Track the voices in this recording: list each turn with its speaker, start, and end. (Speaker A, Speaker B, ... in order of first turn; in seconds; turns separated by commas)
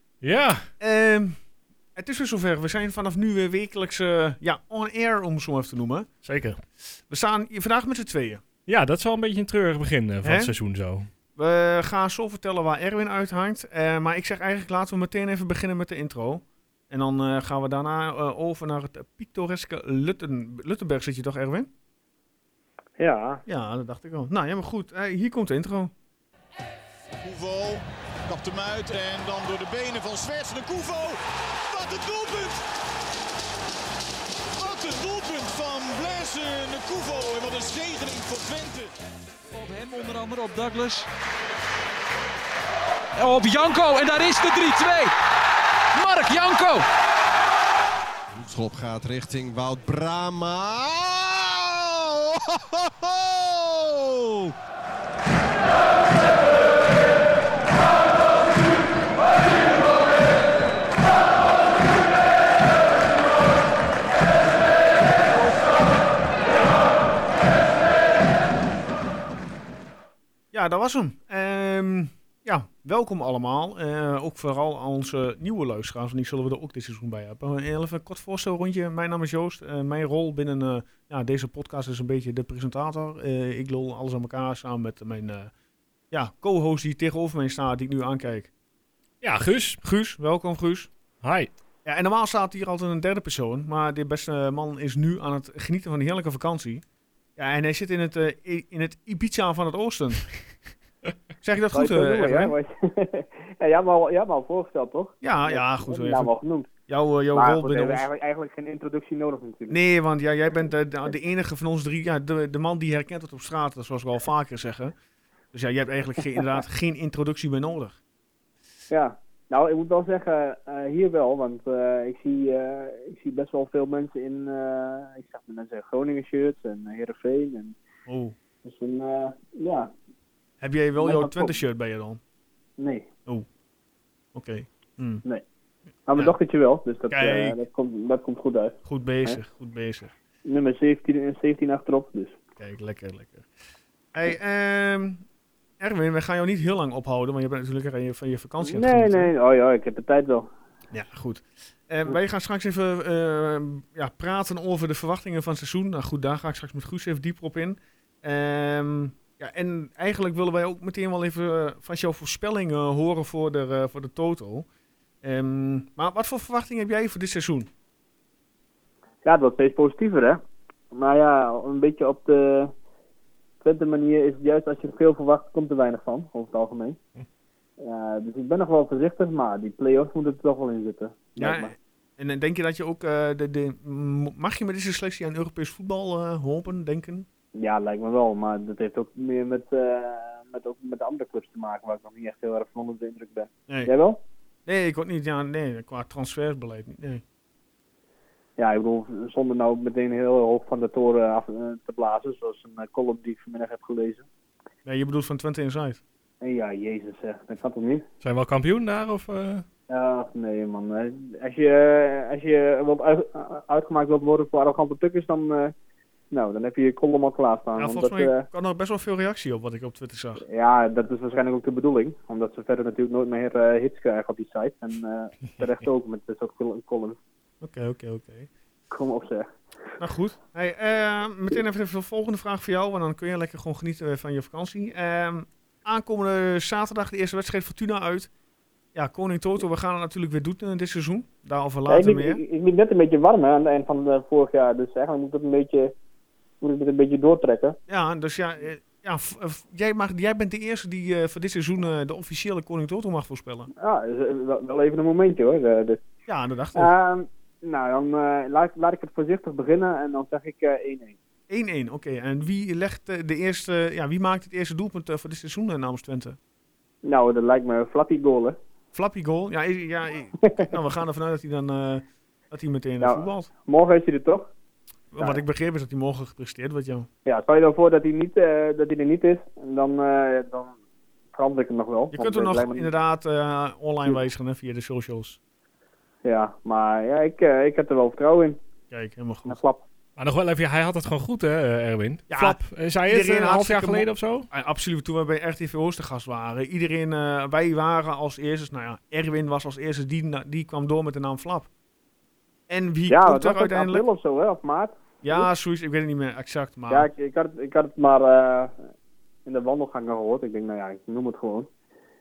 Speaker A: 0.2-0.7, Speaker B: 0.8-1.4, Speaker B: 1.9-6.1, Speaker A: 6.2-6.6, Speaker B: 7.1-8.4, Speaker A: 8.7-11.1, Speaker B: 10.2-10.5, Speaker B: 11.3-21.7, Speaker C: 23.0-23.4, Speaker B: 23.4-25.9, Speaker D: 27.2-32.6, Speaker D: 34.5-38.9, Speaker E: 39.5-41.1, Speaker E: 43.1-45.1, Speaker E: 45.9-46.8, Speaker F: 48.3-54.5, Speaker B: 70.5-85.5, Speaker B: 86.1-88.5, Speaker A: 89.2-89.8, Speaker B: 89.8-90.9, Speaker A: 91.2-91.5, Speaker B: 91.8-96.8, Speaker B: 97.4-100.3, Speaker B: 101.4-102.5, Speaker C: 101.7-106.7, Speaker B: 105.2-106.3, Speaker B: 106.9-108.0, Speaker C: 107.3-109.8, Speaker B: 109.7-114.9, Speaker B: 115.5-118.0, Speaker C: 118.9-127.8, Speaker B: 128.1-128.3, Speaker C: 128.6-129.9, Speaker B: 130.6-132.2, Speaker C: 131.0-131.5, Speaker C: 132.8-133.1, Speaker B: 134.3-135.2, Speaker C: 136.1-139.4, Speaker B: 137.1-137.6, Speaker B: 138.8-140.1, Speaker C: 140.4-142.3, Speaker B: 142.6-143.5, Speaker B: 144.1-145.2, Speaker B: 145.8-149.3, Speaker C: 148.6-150.5, Speaker B: 150.9-164.7, Speaker B: 165.2-167.7, Speaker C: 169.2-170.4, Speaker C: 170.9-172.7, Speaker C: 173.6-177.0, Speaker C: 177.8-181.7, Speaker B: 181.4-187.3, Speaker C: 187.6-194.2, Speaker B: 194.7-197.2, Speaker C: 198.6-204.2, Speaker B: 204.8-206.0, Speaker C: 206.4-208.0, Speaker A: 208.2-209.7, Speaker C: 209.9-215.7, Speaker C: 216.3-218.4, Speaker B: 217.8-220.4, Speaker C: 220.4-227.2, Speaker B: 227.6-228.5, Speaker C: 228.9-229.5, Speaker B: 230.0-238.3, Speaker B: 238.9-242.4, Speaker C: 241.9-245.9, Speaker C: 246.6-247.8, Speaker B: 247.9-253.7, Speaker C: 253.8-256.0, Speaker B: 256.3-256.9, Speaker C: 256.7-261.2, Speaker B: 261.5-266.4, Speaker C: 267.0-268.6, Speaker B: 268.9-273.5, Speaker C: 270.4-270.7, Speaker C: 273.0-274.5, Speaker B: 275.1-277.1, Speaker C: 277.2-280.7, Speaker C: 281.3-282.9, Speaker B: 282.1-285.4, Speaker C: 286.2-288.6, Speaker B: 288.9-289.6, Speaker C: 289.5-289.8, Speaker A: 290.2-294.5, Speaker B: 292.3-301.7, Speaker B: 302.7-304.0, Speaker C: 303.1-305.4, Speaker B: 305.2-307.1, Speaker C: 306.9-308.8, Speaker C: 309.4-311.7